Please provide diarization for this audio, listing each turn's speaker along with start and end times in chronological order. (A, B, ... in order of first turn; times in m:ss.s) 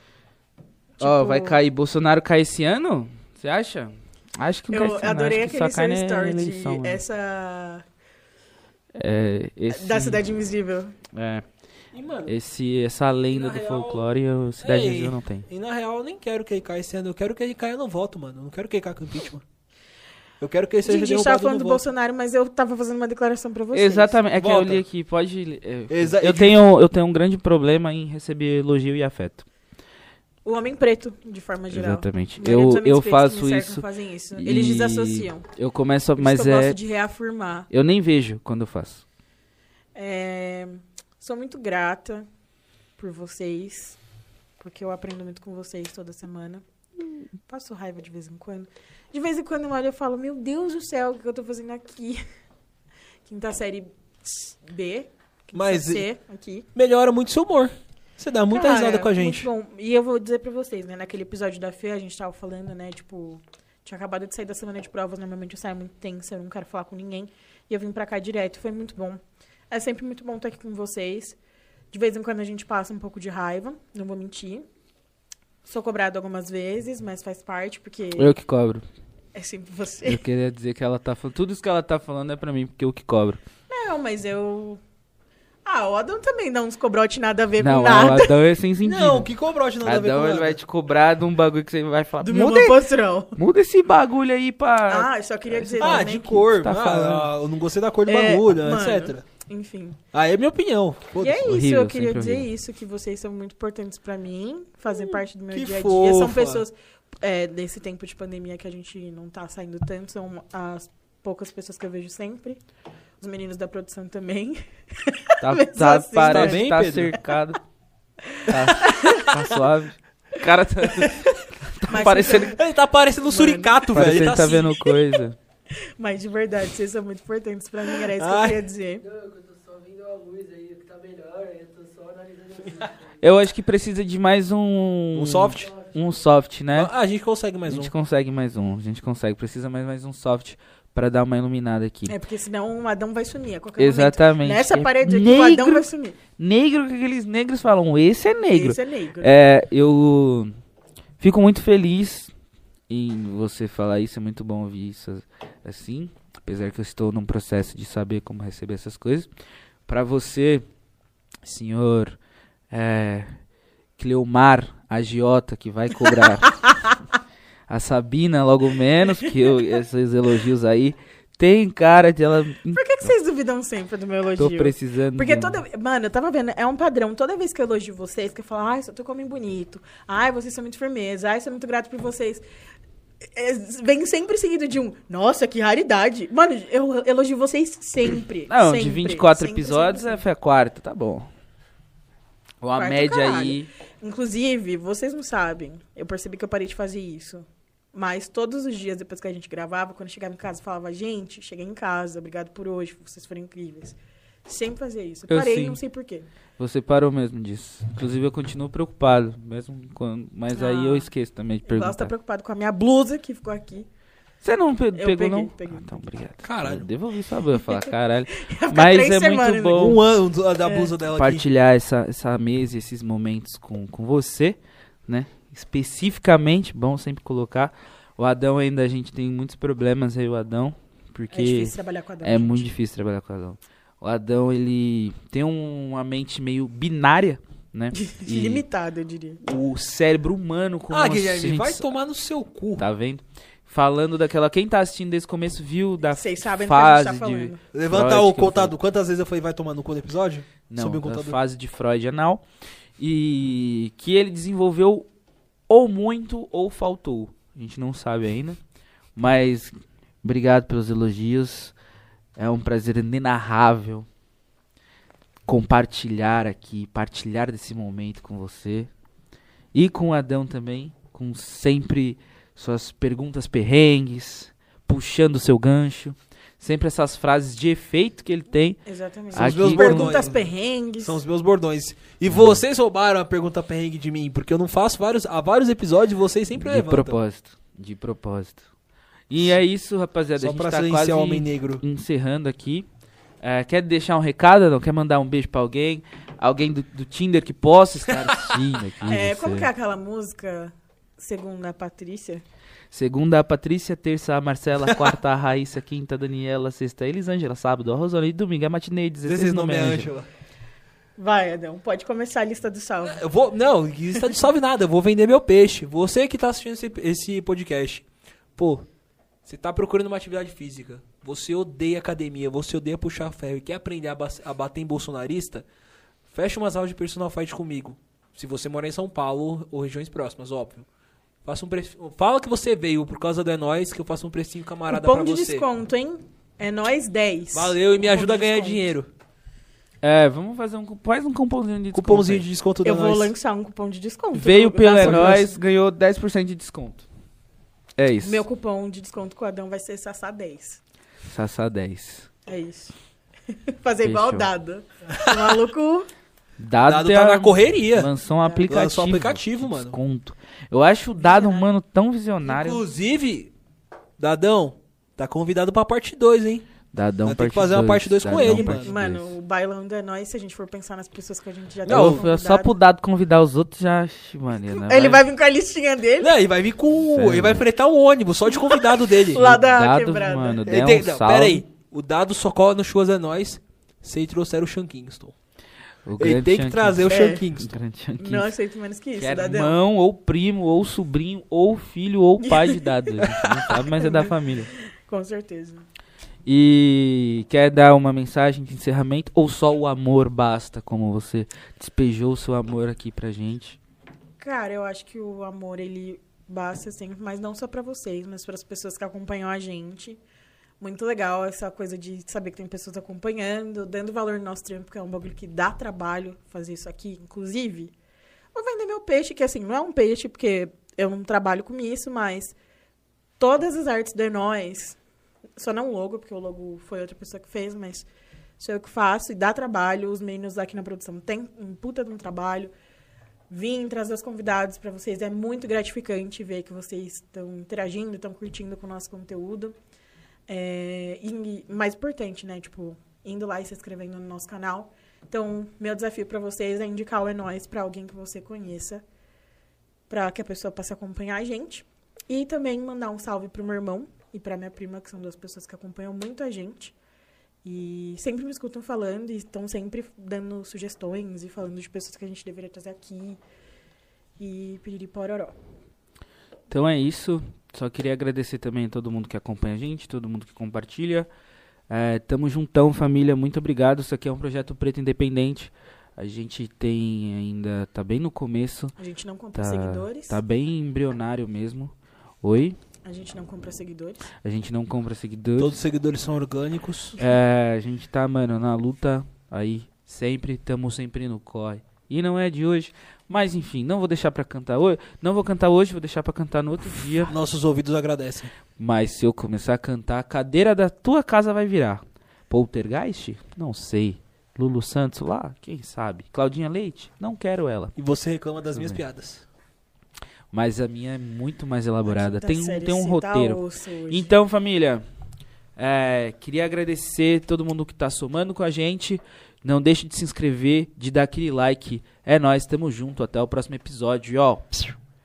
0:01.0-0:01.6 A
0:01.0-0:07.0 B
0:04.7-0:07.8 A
0:09.0-0:10.2 B
0:09.7-0:11.0 A
0:11.1-0:11.4 B
0:11.9-0:12.3 C
0:12.3-0:15.5 B
0:13.3-0:19.4 C
0:20.4-0:21.8 C
0:20.8-0:24.2 A
0:23.7-0:29.4 B
0:24.3-0:24.8 C
0:25.9-0:26.6 C
0:30.4-0:35.4 A
0:31.7-0:33.8 B
0:34.3-0:36.8 B
0:36.2-0:37.7 A
0:37.7-0:39.0 B
0:39.9-0:42.3 A
0:43.0-0:44.0 A
0:44.6-0:46.6 A
0:47.4-0:52.2 A
0:53.2-0:56.7 A
0:55.5-0:56.1 C
0:56.7-0:59.5 C
0:58.5-1:11.4 A
1:11.9-1:14.6 A
1:15.6-1:18.3 A
1:18.2-1:18.8 B
1:19.3-1:20.2 A
1:20.0-1:23.4 B
1:23.7-1:24.8 A
1:25.6-1:28.3 A
1:27.6-1:32.8 B
1:28.8-1:30.6 C
1:32.2-1:33.4 A
1:33.4-1:36.1 B
1:34.9-1:37.2 A
1:35.8-1:39.2 C
1:36.6-1:37.2 B
1:38.0-1:40.0 A
1:40.1-1:41.5 C
1:41.2-1:52.6 A
1:41.4-1:42.5 B
1:45.5-1:46.6 C
1:53.2-1:56.6 A
1:55.4-1:57.6 B
1:56.2-1:57.2 C
1:58.2-1:59.3 A
1:58.5-2:02.6 B
1:58.8-1:59.4 C
2:01.9-2:02.6 A
2:02.4-2:04.9 C
2:03.2-2:03.8 A
2:03.9-2:05.4 B
2:05.8-2:09.0 A
2:08.1-2:08.6 C
2:09.0-2:13.2 D
2:13.2-2:16.9 B
2:15.1-2:15.7 C
2:15.5-2:16.3 D
2:16.7-2:17.9 C
2:17.6-2:22.1 B
2:22.1-2:26.2 A
2:23.8-2:25.8 B
2:26.4-2:30.5 B
2:28.5-2:29.3 A
2:31.2-2:32.3 B
2:32.9-2:39.3 B
2:39.9-2:40.6 B
2:41.4-2:42.2 B
2:42.7-2:43.4 B
2:44.0-2:46.6 B
2:46.4-2:46.9 A
2:47.7-2:53.1 B
2:52.7-3:02.4 A
2:54.4-2:55.6 B
3:03.3-3:10.2 A
3:08.5-3:11.3 B
3:12.6-3:13.7 B
3:12.8-3:26.3 A
3:25.3-3:25.8 B
3:26.6-3:32.1 B
3:30.5-3:31.1 A
3:31.6-3:33.9 A
3:34.4-3:40.0 B
3:34.9-3:35.9 A
3:36.4-3:36.9 C
3:37.6-3:40.0 A
3:39.7-3:41.4 C
3:40.6-3:40.9 A
3:41.1-3:58.6 B
3:51.3-3:52.7 A
3:57.9-3:59.4 A
3:59.4-4:01.9 B
4:00.9-4:02.8 C
4:02.8-4:08.7 B
4:06.1-4:07.6 A
4:07.7-4:11.4 C
4:10.7-4:12.4 B
4:13.0-4:15.0 B
4:15.7-4:18.6 B
4:19.2-4:21.7 B
4:22.4-4:24.1 B
4:25.4-4:28.9 B
4:29.7-4:38.8 B
4:38.8-4:41.2 A
4:39.3-4:40.2 B
4:39.3-4:47.2 C
4:46.6-4:48.6 B
4:49.3-4:52.8 B
4:50.4-4:51.8 C
4:53.4-4:59.7 B
4:58.2-4:59.2 C
4:59.1-5:02.4 A
5:02.9-5:10.1 B
5:09.2-5:10.3 C
5:11.2-5:13.2 A
5:13.1-5:18.8 C
5:19.4-5:25.6 C
5:26.3-5:30.9 C
5:31.4-5:35.6 C
5:34.9-5:38.8 A
5:37.5-5:39.1 C
5:40.0-5:42.5 B
5:41.9-5:43.3 C
5:42.8-5:45.5 A
5:44.3-5:47.0 B
5:45.0-5:45.4 C
5:48.0-5:48.4 B
5:48.2-5:50.8 A
5:51.3-5:52.3 B
5:52.5-5:52.9 A
5:53.5-5:56.1 A
5:54.0-5:54.5 B
5:56.6-6:02.8 B
5:56.8-5:58.1 C
5:58.7-6:00.0 C
6:01.2-6:01.6 A
6:02.4-6:03.5 C
6:04.2-6:06.6 C
6:06.9-6:09.3 B
6:07.2-6:09.0 C
6:08.4-6:12.8 A
6:11.8-6:12.2 C
6:11.8-6:15.2 B
6:14.7-6:16.3 A
6:16.2-6:19.4 C
6:17.0-6:17.6 B
6:18.5-6:20.6 A
6:19.3-6:21.6 B
6:20.6-6:25.3 C
6:26.0-6:28.5 B
6:26.2-6:27.7 C
6:27.1-6:27.4 A
6:28.2-6:29.8 A
6:29.2-6:34.7 B
6:32.4-6:35.8 A
6:36.4-6:43.8 B
6:44.4-6:50.2 A
6:50.8-6:57.9 A
6:58.5-7:02.6 A
7:03.4-7:05.0 A
7:05.6-7:08.1 A
7:08.6-7:12.7 A
7:13.5-7:19.7 A
7:20.5-7:29.0 A
7:30.1-7:36.9 A
7:37.6-7:43.4 A
7:44.4-7:45.6 A
7:46.7-7:51.3 B
7:51.9-7:58.9 B
7:59.0-8:00.4 A
7:59.6-8:02.8 B
8:03.0-8:04.2 A
8:04.4-8:05.8 B
8:05.6-8:07.2 C
8:07.2-8:17.4 B
8:17.3-8:18.5 C
8:18.8-8:27.9 B
8:28.0-8:29.4 C
8:28.7-8:29.0 B
8:30.5-8:35.0 B
8:32.1-8:34.3 A
8:35.8-8:44.9 B